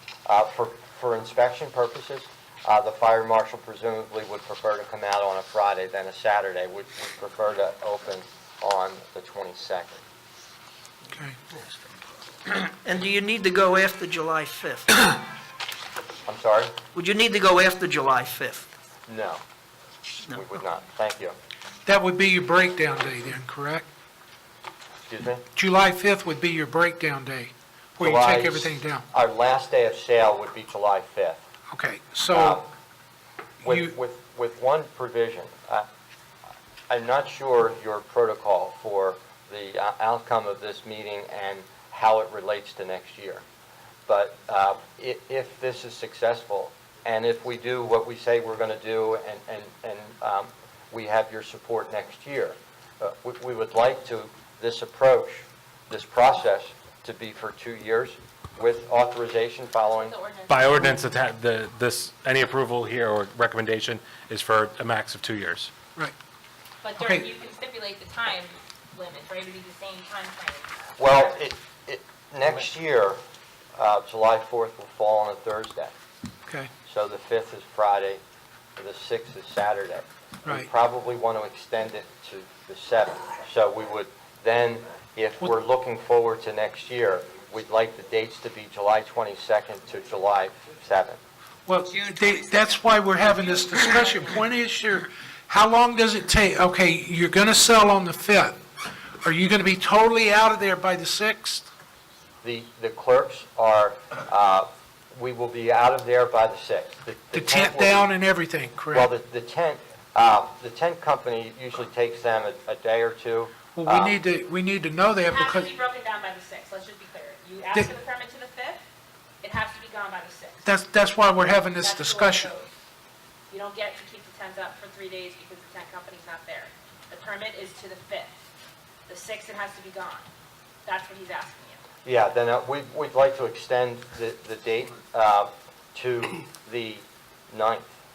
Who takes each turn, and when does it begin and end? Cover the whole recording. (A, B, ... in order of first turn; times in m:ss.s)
0:00.2-0:10.0 A
0:12.4-0:15.2 B
0:16.3-0:16.8 A
0:16.9-0:18.7 B
0:19.1-0:19.4 A
0:20.3-0:21.4 A
0:21.8-0:23.8 C
0:25.0-0:25.4 A
0:25.6-0:29.0 C
0:28.0-0:31.4 A
0:31.7-0:32.6 C
0:32.3-0:32.7 A
0:33.6-0:35.8 A
0:33.6-0:33.9 C
0:36.9-0:43.4 A
0:44.1-1:00.2 A
0:59.9-1:00.6 D
1:00.5-1:05.7 E
1:06.8-1:11.3 D
1:07.0-1:07.2 C
1:11.0-1:13.2 A
1:13.8-1:15.9 A
1:16.8-1:18.2 A
1:18.8-1:31.2 A
1:20.4-1:20.7 C
1:31.7-1:38.6 C
1:33.8-1:34.2 D
1:39.2-1:41.7 C
1:42.4-1:48.1 A
1:47.3-1:49.1 C
1:48.9-1:54.2 A
1:53.7-1:55.7 C
1:55.3-1:58.8 D
1:59.4-2:00.6 D
2:00.6-2:02.5 C
2:01.8-2:02.7 D
2:03.5-2:08.4 D
2:09.1-2:10.3 D
2:10.8-2:11.8 D
2:12.0-2:17.9 A